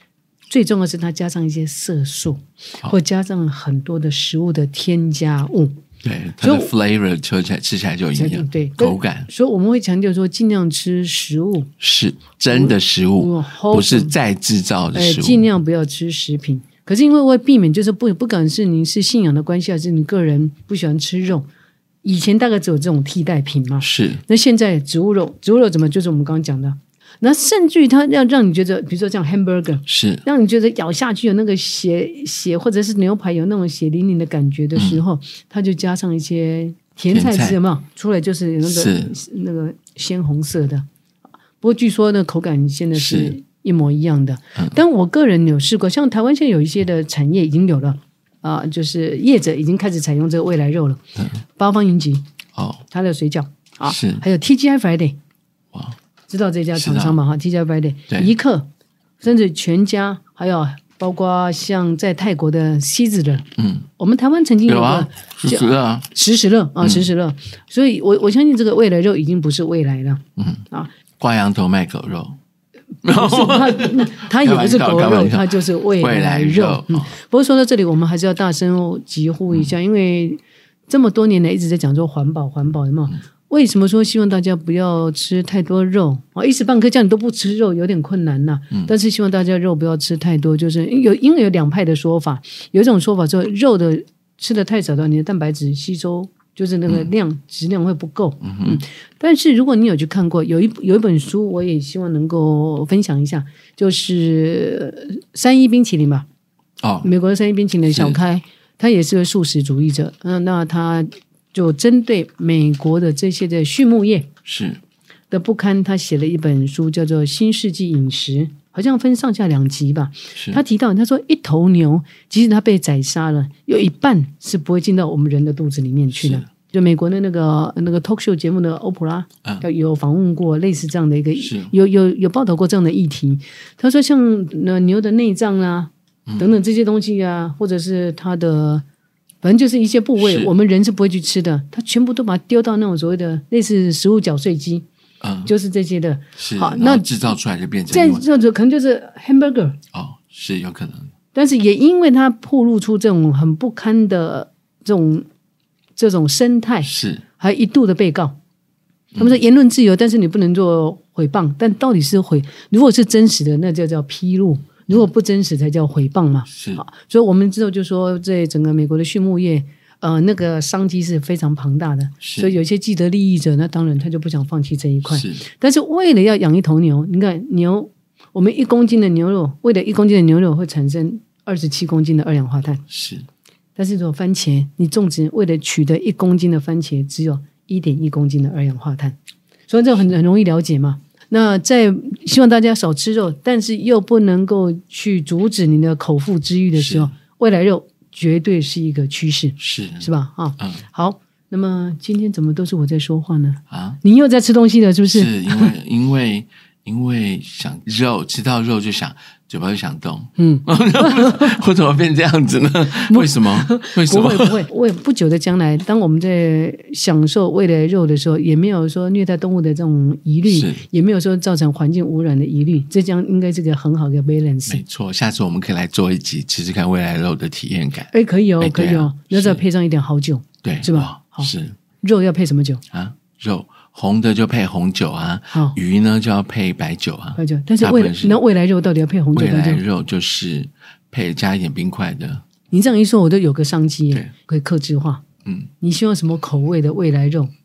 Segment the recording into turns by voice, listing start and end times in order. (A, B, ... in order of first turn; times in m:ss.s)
0:00.5-0:05.8 A
0:06.0-0:09.3 B
0:06.4-0:06.7 A
0:08.2-0:11.7 A
0:11.8-0:15.4 B
0:12.5-0:14.1 A
0:14.9-0:21.5 A
0:22.0-0:40.9 A
0:23.8-0:24.2 B
0:29.9-0:30.2 B
0:34.8-0:35.0 B
0:37.1-0:37.6 B
0:38.6-0:39.2 B
0:41.6-0:51.0 A
0:42.9-0:43.4 B
0:51.6-0:52.2 A
0:52.6-0:52.8 B
0:52.9-0:55.2 A
0:53.8-0:54.2 B
0:56.3-0:58.7 A
0:56.8-0:57.2 B
0:59.2-1:10.9 A
1:03.6-1:03.9 B
1:04.7-1:06.1 B
1:10.4-1:10.6 B
1:11.2-1:12.4 B
1:13.0-1:17.1 B
1:13.0-1:46.3 A
1:38.4-1:38.8 B
1:46.8-1:47.1 B
1:47.0-1:54.3 A
1:47.9-1:48.2 B
1:54.4-1:54.8 B
1:55.3-2:18.8 A
2:00.4-2:00.6 B
2:06.2-2:06.4 B
2:11.4-2:11.7 B
2:16.3-2:16.5 B
2:19.4-2:24.9 A
2:20.2-2:20.5 B
2:25.2-2:25.5 B
2:25.5-2:27.3 A
2:26.4-2:28.2 B
2:27.9-2:29.8 A
2:29.9-2:31.1 B
2:31.3-2:35.3 A
2:36.0-2:38.4 A
2:36.8-2:37.2 B
2:39.1-2:39.4 B
2:39.2-3:02.8 A
2:46.5-2:46.8 B
2:52.2-2:52.5 B
2:55.1-2:55.4 B
3:02.9-3:03.3 B
3:03.8-3:09.2 A
3:09.7-3:25.7 A
3:16.8-3:17.1 B
3:19.6-3:20.8 B
3:23.7-3:24.0 B
3:25.1-3:34.7 B
3:30.4-3:31.6 A
3:33.0-3:44.8 A
3:40.5-3:40.8 B
3:44.7-3:49.6 B
3:48.1-3:52.8 A
3:50.6-3:51.8 B
3:52.9-3:58.4 B
3:55.5-3:55.8 A
3:57.4-3:59.8 A
3:59.3-4:02.4 B
4:02.7-4:05.2 A
4:05.8-4:07.5 A